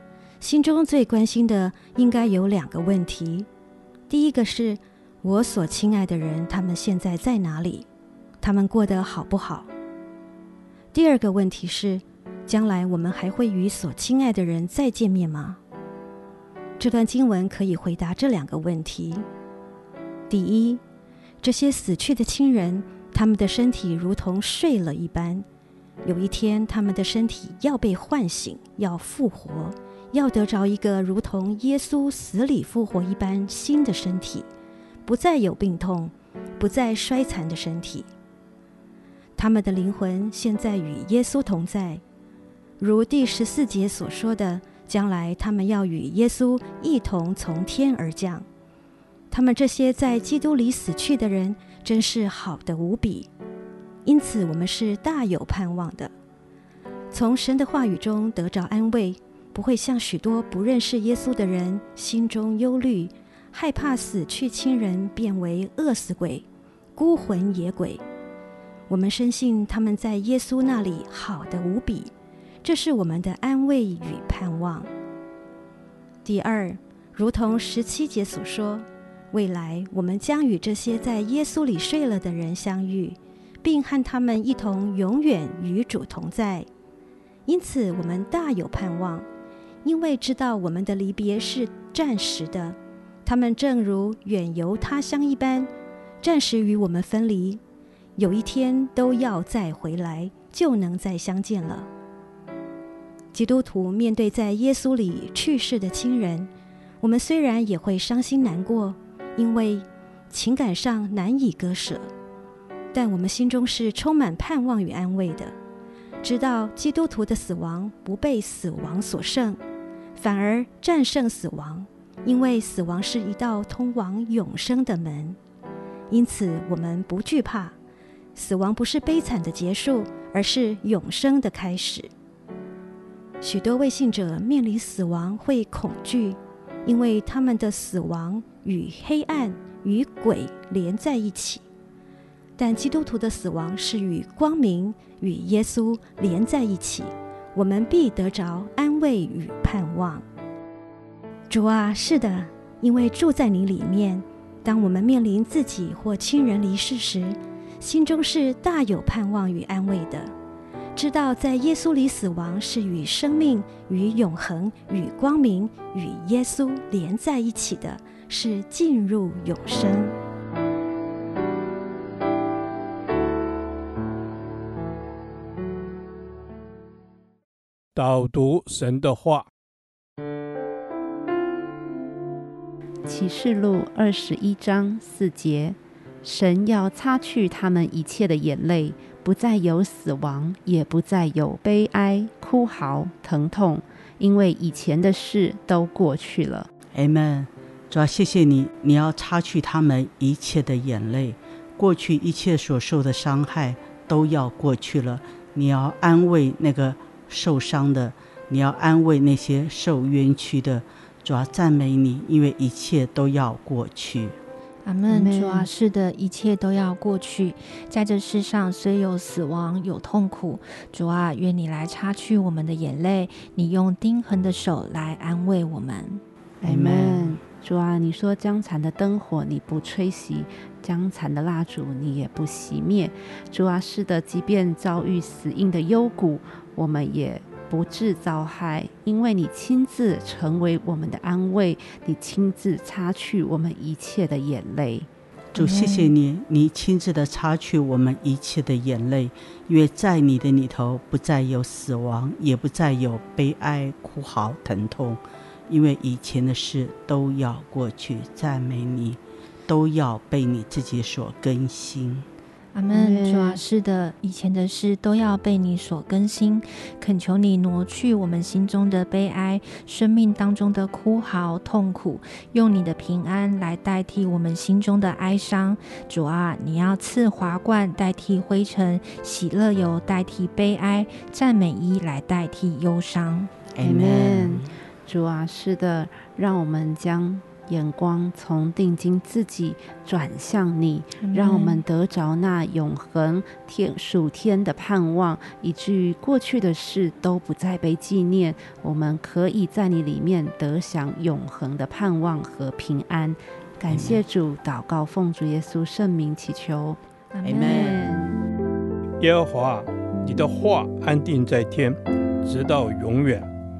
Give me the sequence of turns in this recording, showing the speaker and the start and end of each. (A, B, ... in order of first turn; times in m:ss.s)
0:00.4-0:03.5 A
0:04.1-0:07.9 A
0:08.4-0:09.7 A
0:10.9-0:15.6 A
0:16.8-0:19.2 A
0:20.3-0:20.8 A
0:21.4-0:25.4 A
0:26.0-0:34.5 A
0:35.0-0:38.1 A
0:39.4-0:42.0 A
0:42.8-0:48.4 A
0:49.3-0:53.3 A
0:54.0-0:56.1 A
0:57.1-1:08.0 A
1:08.9-1:12.1 A
1:12.6-1:14.9 A
1:16.2-1:26.7 A
1:27.4-1:29.3 A
1:29.8-1:35.7 A
1:36.2-1:37.6 A
1:38.2-1:41.9 A
1:43.3-1:52.1 A
1:52.9-1:55.5 A
1:56.2-1:59.6 A
2:00.2-2:05.4 A
2:06.1-2:07.8 A
2:08.3-2:12.1 A
2:13.4-2:21.6 A
2:22.6-2:30.2 A
2:31.5-2:40.3 A
2:40.9-2:50.1 A
2:57.9-2:59.5 B
3:03.0-3:16.7 C
3:16.9-3:34.4 D
3:34.8-3:46.2 E
3:35.1-3:35.7 C
3:46.6-3:47.4 D
3:46.6-4:05.1 C
4:05.5-4:22.3 D
4:05.5-4:06.1 E
4:22.7-4:43.5 E
4:22.9-4:23.6 C
4:43.7-4:44.7 D
4:43.8-5:07.0 C
4:51.2-4:51.8 E
5:03.9-5:04.2 D
5:07.3-5:08.0 E
5:07.4-5:08.0 D
5:07.8-5:08.4 C
5:09.2-5:13.5 B